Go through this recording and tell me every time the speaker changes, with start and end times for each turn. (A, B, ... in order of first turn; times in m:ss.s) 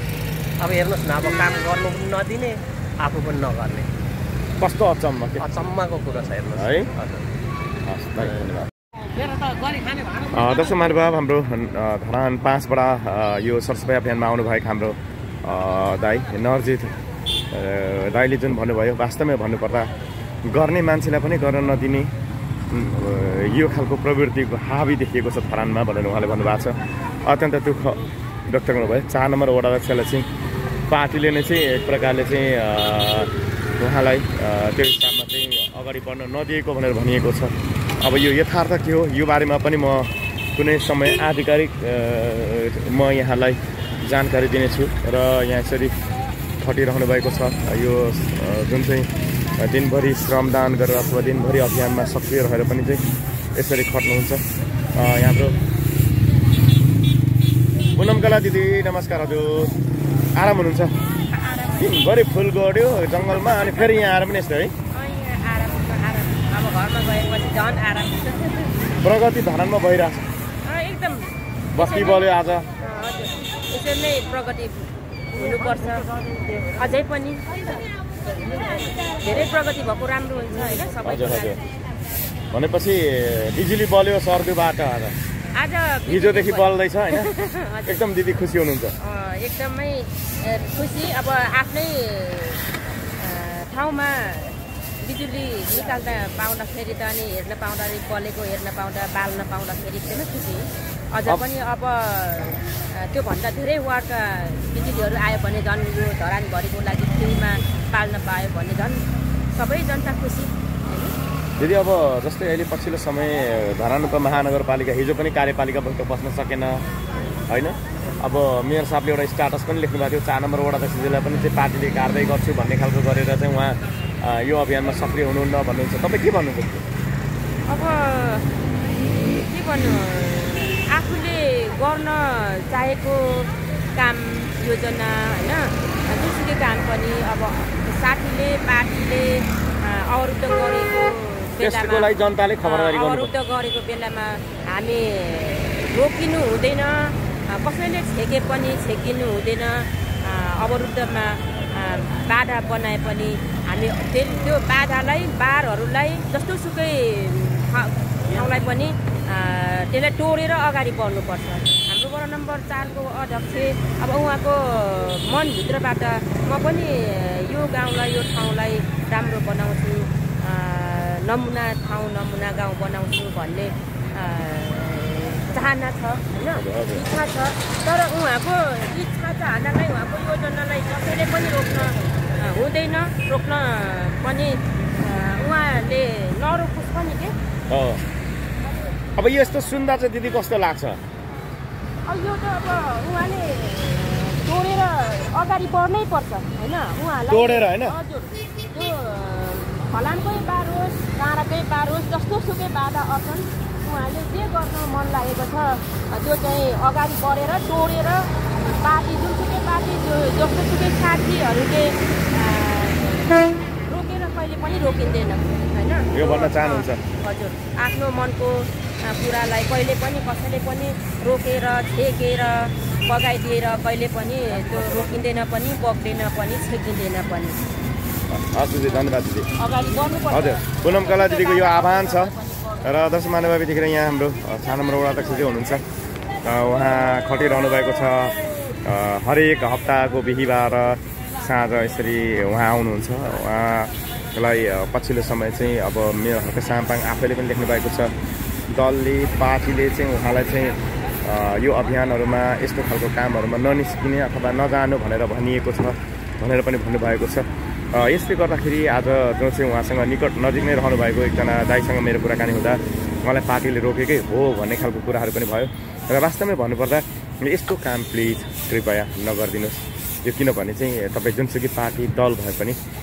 0:00.6-0:03.9 A
0:04.6-0:05.4 B
0:05.4-0:07.2 A
0:06.6-0:06.9 B
0:07.9-0:08.7 B
0:09.1-0:11.0 A
0:10.3-0:17.0 B
0:17.5-0:19.9 B
0:20.4-0:22.1 B
0:22.7-0:30.3 B
0:30.9-0:46.0 B
0:46.6-0:53.0 B
0:53.6-0:54.4 B
0:54.9-0:55.6 B
0:58.0-0:59.8 B
1:00.4-1:00.9 B
1:01.3-1:02.1 C
1:01.8-1:04.7 B
1:04.9-1:08.9 C
1:09.0-1:10.2 B
1:10.6-1:17.8 C
1:11.8-1:12.7 B
1:18.4-1:21.6 C
1:21.0-1:21.6 B
1:22.5-1:25.2 B
1:25.6-1:28.0 C
1:26.1-1:27.3 B
1:27.9-1:28.9 B
1:29.0-1:32.6 C
1:33.2-1:49.0 C
1:49.5-1:51.2 C
1:51.6-1:56.8 B
1:57.5-2:06.8 B
2:07.7-2:08.5 C
2:09.4-3:07.4 C
2:21.6-2:23.3 B
2:56.5-2:57.1 B
3:07.7-3:08.0 B
3:09.2-3:11.0 B
3:12.1-3:47.7 C
3:17.3-3:18.0 B
3:36.1-3:37.0 B
3:48.3-3:49.5 B
3:49.6-3:52.8 C
3:50.3-3:55.8 B
3:56.4-4:08.1 B
4:08.7-4:32.8 B